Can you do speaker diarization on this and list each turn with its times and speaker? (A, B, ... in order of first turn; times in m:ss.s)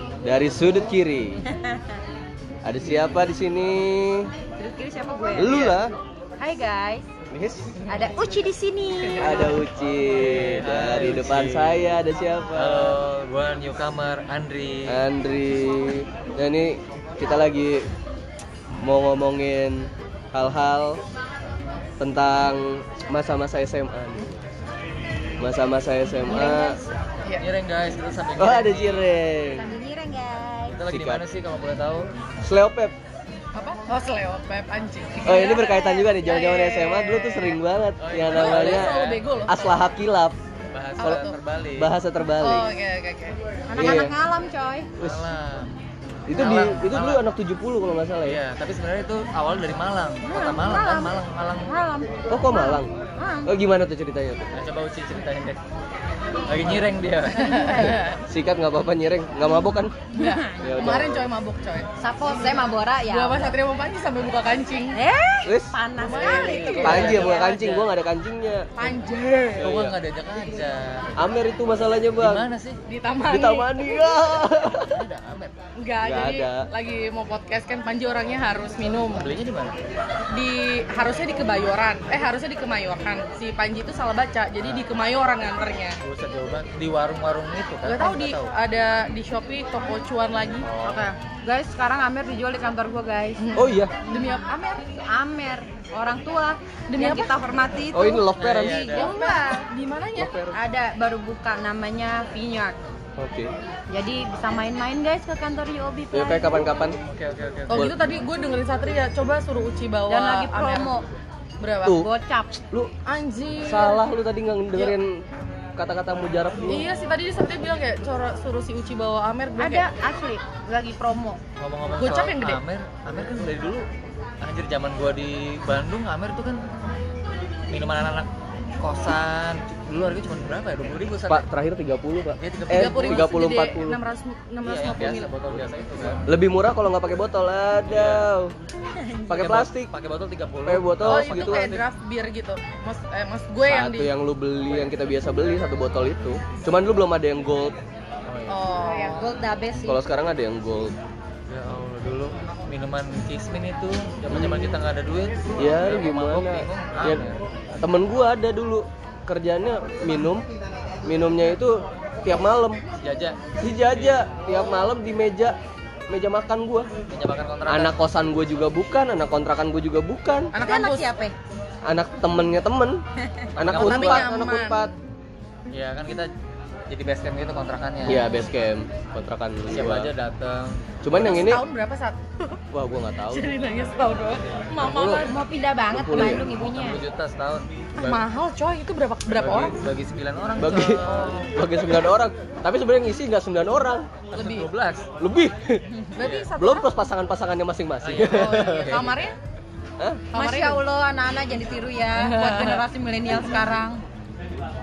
0:00.2-0:01.4 A
0:02.6-0:04.3 A
0:04.6-0:05.8 B
0:05.4-0:05.9 A
0:06.4-0:07.0 B
0:07.3-0:07.7 A
0:07.9-0:09.6 B
0:09.2-0:13.0 A
0:09.4-0:11.9 C
0:12.5-0:15.0 C
0:14.9-0:17.9 A
0:18.8-0:21.0 A
0:22.0-0:24.4 A
0:25.4-0:26.8 A
0:26.3-0:26.8 B
0:27.4-0:29.1 C
0:28.4-0:29.7 A
0:29.5-0:30.8 B
0:30.7-0:32.1 C
0:30.8-0:31.2 A
0:32.4-0:32.9 A
0:33.6-0:37.6 D
0:35.2-0:38.9 A
0:35.3-0:36.1 B
0:38.0-0:39.5 C
0:38.3-0:39.9 D
0:39.5-0:40.4 A
0:40.7-0:41.9 C
0:41.0-0:41.4 D
0:41.8-0:42.7 A
0:42.4-0:43.4 D
0:43.7-0:44.9 B
0:43.8-0:44.2 A
0:45.0-0:45.7 C
0:46.3-0:48.4 A
0:46.3-0:47.2 C
0:48.2-0:51.7 C
0:50.2-0:53.5 B
0:52.3-0:52.9 A
0:53.5-0:54.5 A
0:54.5-0:55.6 C
0:56.4-0:57.8 C
0:57.3-0:58.2 D
0:58.3-0:59.9 A
1:00.1-1:01.9 D
1:00.2-1:00.7 B
1:00.6-1:01.2 A
1:02.0-1:03.6 B
1:03.1-1:05.0 D
1:04.9-1:07.6 B
1:05.4-1:05.8 A
1:06.0-1:07.5 D
1:06.2-1:07.9 C
1:06.8-1:08.9 A
1:08.8-1:09.6 D
1:09.6-1:10.0 A
1:09.6-1:11.2 C
1:11.2-1:12.4 A
1:12.2-1:12.8 C
1:12.9-1:14.0 D
1:13.3-1:15.0 A
1:14.8-1:15.5 C
1:15.8-1:19.3 D
1:16.0-1:16.7 A
1:19.1-1:19.7 C
1:20.3-1:26.0 D
1:24.6-1:24.9 C
1:26.0-1:28.5 C
1:27.8-1:30.7 D
1:30.6-1:31.1 C
1:30.8-1:33.4 B
1:33.4-1:34.5 D
1:33.6-1:33.9 A
1:34.2-1:38.3 B
1:36.9-1:37.4 D
1:37.9-1:38.9 A
1:38.4-1:39.1 C
1:38.6-1:40.3 D
1:38.9-1:39.6 B
1:40.2-1:40.6 A
1:40.5-1:42.8 B
1:43.2-1:43.5 A
1:43.9-1:46.7 B
1:46.1-1:47.0 A
1:47.0-1:47.9 C
1:47.7-1:50.9 D
1:50.1-1:51.0 B
1:51.6-1:52.0 D
1:52.0-1:52.6 B
1:53.0-1:54.0 D
1:53.6-1:55.2 A
1:55.8-1:56.9 A
1:56.7-1:59.9 D
1:59.6-2:01.4 B
2:01.6-2:03.8 C
2:02.0-2:02.6 D
2:04.4-2:06.6 C
2:07.7-2:08.3 C
2:08.8-2:11.4 C
2:11.3-2:14.0 A
2:12.4-2:13.3 C
2:12.7-2:15.3 D
2:14.6-2:16.2 C
2:16.3-2:18.5 A
2:17.9-2:18.3 C
2:18.9-2:19.3 B
2:19.3-2:19.9 A
2:19.3-2:21.8 C
2:20.6-2:21.8 A
2:21.0-2:24.1 D
2:23.7-2:27.8 A
2:28.3-2:28.6 C
2:28.5-2:29.3 D
2:28.8-2:30.0 B
2:29.8-2:30.9 A
2:31.5-2:37.4 C
2:35.6-2:37.2 A
2:37.8-2:40.4 A
2:41.0-2:42.8 A
2:43.0-2:44.3 C
2:43.6-2:45.6 A
2:46.1-2:46.9 A
2:47.1-2:47.9 C
2:47.7-2:50.5 A
2:50.5-2:51.1 D
2:50.6-2:51.3 B
2:51.9-2:53.0 A
2:53.6-2:54.9 A
2:53.6-2:54.3 C
2:53.7-2:54.9 D
2:55.7-2:56.3 C
2:56.9-2:58.3 C
2:58.0-3:00.1 A
2:59.7-3:00.8 C
3:01.0-3:01.6 A
3:01.1-3:02.6 D
3:02.7-3:03.5 A
3:03.3-3:05.3 D
3:04.9-3:07.0 B
3:05.9-3:06.4 A
3:06.1-3:08.2 C
3:08.0-3:09.7 D
3:09.4-3:11.0 C
3:10.6-3:11.0 A
3:11.0-3:11.5 D
3:11.5-3:14.1 A
3:14.3-3:15.1 C
3:14.3-3:14.7 D
3:15.2-3:15.8 A
3:16.1-3:16.9 D
3:16.2-3:16.5 C
3:16.6-3:19.1 A
3:18.0-3:19.0 C
3:18.3-3:19.3 D
3:20.0-3:20.2 A
3:20.3-3:20.8 D
3:20.3-3:24.0 B
3:22.2-3:22.8 D